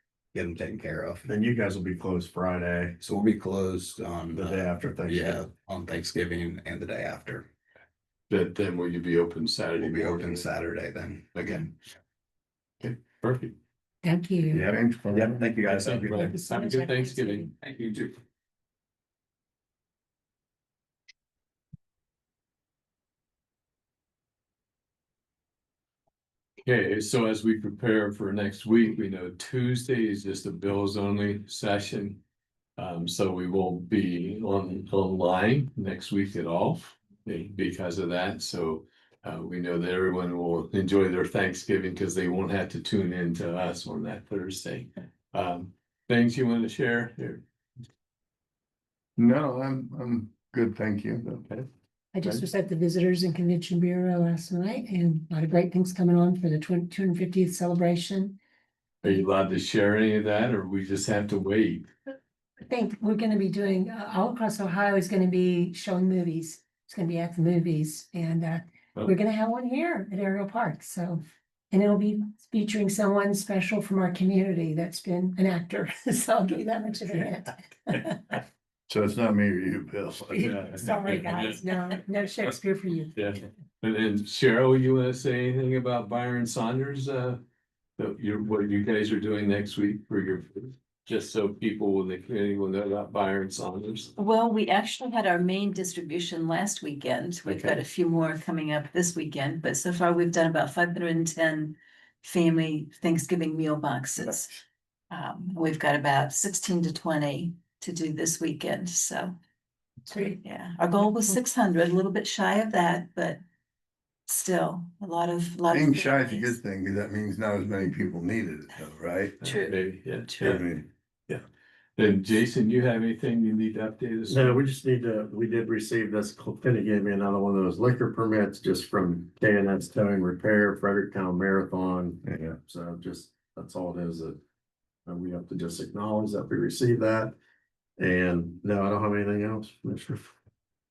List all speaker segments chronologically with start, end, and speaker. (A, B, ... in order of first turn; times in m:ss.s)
0:00.3-0:01.3 A
0:01.3-0:03.0 B
0:03.0-0:07.5 A
0:04.3-0:05.5 B
0:08.3-0:10.5 C
0:09.8-0:11.7 A
0:11.4-0:11.7 C
0:12.8-0:13.6 C
0:14.0-0:14.7 D
0:14.5-0:16.3 A
0:14.6-0:15.5 E
0:15.5-0:18.1 C
0:16.2-0:17.5 D
0:26.6-0:32.2 C
0:32.8-0:47.4 C
0:49.2-0:51.4 E
0:51.4-0:51.7 C
0:52.1-0:58.4 D
0:59.0-1:01.9 C
1:02.7-1:18.4 D
1:18.9-1:20.6 E
1:20.3-1:23.2 D
1:20.4-1:21.6 C
1:23.2-1:27.4 C
1:28.0-1:34.1 C
1:34.2-1:44.6 F
1:37.5-1:37.8 C
1:45.1-1:49.3 F
1:50.1-1:50.4 D
1:50.4-1:53.4 F
1:51.0-1:51.4 D
1:54.3-1:56.6 F
1:55.7-1:59.4 E
1:59.4-2:01.4 C
1:59.4-2:00.6 F
2:00.4-2:00.9 E
2:02.0-2:04.6 C
2:04.3-2:14.4 B
2:12.2-2:12.5 E
2:15.1-2:17.4 B
2:18.0-2:20.3 B